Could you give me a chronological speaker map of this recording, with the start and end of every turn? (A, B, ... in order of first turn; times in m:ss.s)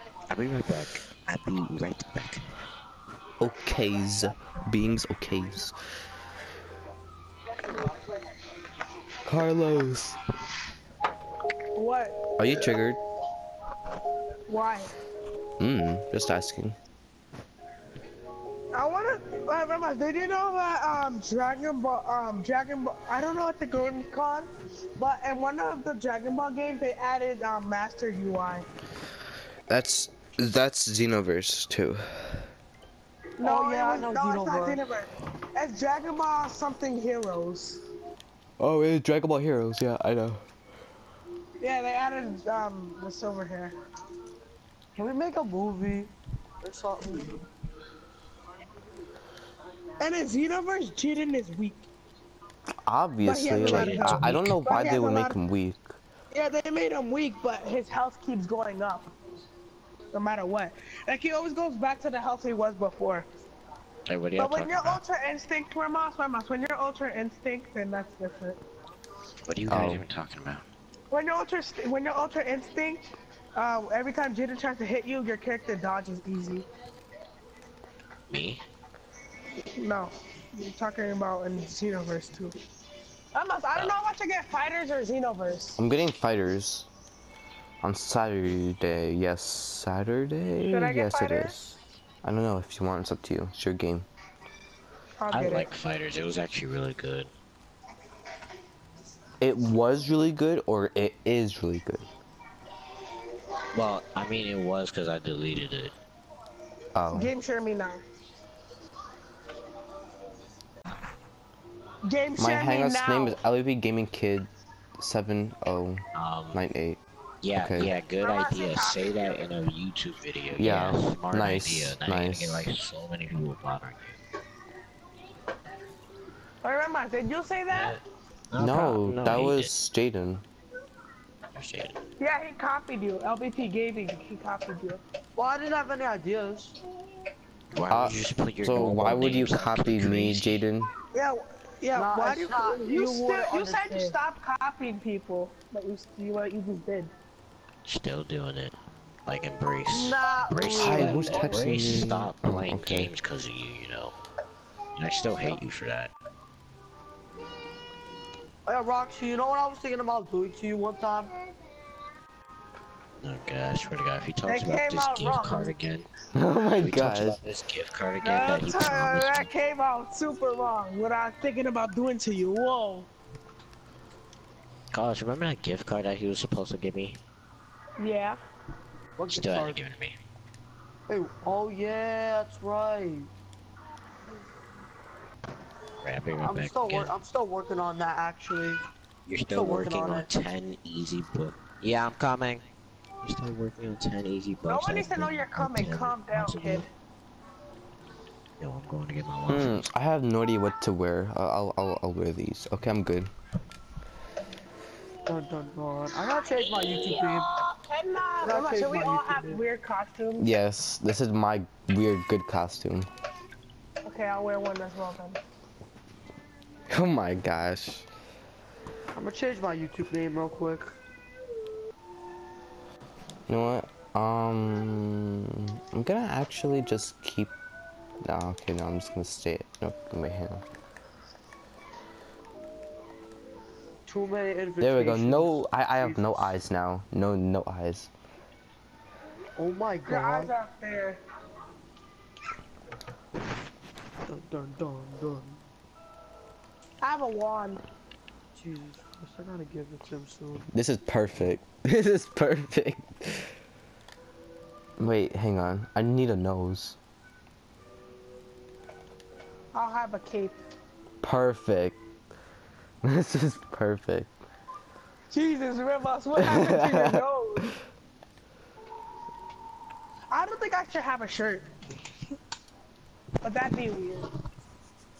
0:00.3-0:02.4 A
0:03.4-0:05.8 B
0:09.2-0:10.2 B
0:11.8-0:12.3 C
0:12.4-0:13.0 B
0:14.5-0:14.9 C
0:15.6-0:16.8 B
0:18.7-0:28.7 C
0:29.7-0:32.5 B
0:33.4-0:37.8 C
0:33.4-0:34.8 D
0:38.6-0:40.4 B
0:41.6-0:43.7 C
0:45.0-0:47.4 D
0:50.0-0:51.9 C
0:52.9-0:56.0 B
0:53.2-0:55.4 C
0:53.6-0:54.6 A
0:56.3-0:59.1 C
1:00.1-1:03.3 C
1:04.1-1:05.0 A
1:04.4-1:08.6 C
1:09.5-1:10.6 A
1:09.7-1:10.0 B
1:11.1-1:13.0 C
1:13.6-1:16.7 C
1:18.3-1:18.6 A
1:19.8-1:22.6 C
1:23.3-1:25.8 C
1:25.8-1:26.9 B
1:27.8-1:34.1 B
1:30.7-1:31.6 C
1:35.2-1:35.7 C
1:35.3-1:37.3 A
1:39.4-1:42.1 B
1:43.7-1:45.9 A
1:47.0-1:47.3 B
1:47.1-1:48.0 C
1:52.0-1:53.4 C
1:52.4-1:57.0 B
1:56.2-1:56.6 A
1:57.4-2:04.2 A
1:57.6-1:57.9 B
1:58.2-1:59.5 C
2:00.6-2:02.7 B
2:06.6-2:08.0 C
2:07.7-2:08.0 A
2:08.5-2:09.7 A
2:08.6-2:10.4 B
2:11.6-2:12.0 A
2:12.2-2:15.0 C
2:15.4-2:16.8 D
2:17.7-2:20.6 A
2:17.9-2:20.9 B
2:21.1-2:27.1 C
2:21.9-2:24.2 D
2:27.8-2:28.8 A
2:29.3-2:34.2 A
2:29.9-2:32.1 D
2:30.8-2:33.1 B
2:35.0-2:36.1 A
2:38.7-2:41.3 D
2:43.2-2:46.1 A
2:44.5-2:45.7 C
2:46.4-2:47.4 B
2:46.8-2:49.5 A
2:48.2-2:53.1 C
2:54.9-2:57.2 A
2:58.0-2:58.4 C
2:59.2-2:59.8 D
2:59.3-3:00.2 A
3:01.1-3:03.3 D
3:06.0-3:07.2 A
3:06.4-3:08.8 D
3:09.3-3:12.6 A
3:09.5-3:10.3 D
3:13.2-3:16.9 A
3:14.6-3:16.9 C
3:18.6-3:19.8 A
3:19.5-3:23.3 B
3:25.3-3:27.5 D
3:26.6-3:30.5 C
3:28.4-3:29.6 D
3:30.4-3:33.1 B
3:34.0-3:35.4 C
3:36.9-3:38.1 B
3:39.1-3:41.0 D
3:43.5-3:47.5 B
3:48.2-3:50.6 B
3:54.1-3:56.5 D
3:54.8-3:58.1 B
3:59.6-4:00.5 D
4:00.1-4:01.2 C
4:04.3-4:05.6 D
4:07.0-4:07.8 C
4:08.6-4:10.7 D
4:10.7-4:13.5 B
4:15.0-4:17.0 B
4:19.7-4:20.6 C
4:21.2-4:22.0 B
4:23.0-4:24.3 B
4:25.3-4:27.7 C
4:26.4-4:27.7 B
4:30.3-4:31.7 C
4:33.4-4:34.3 C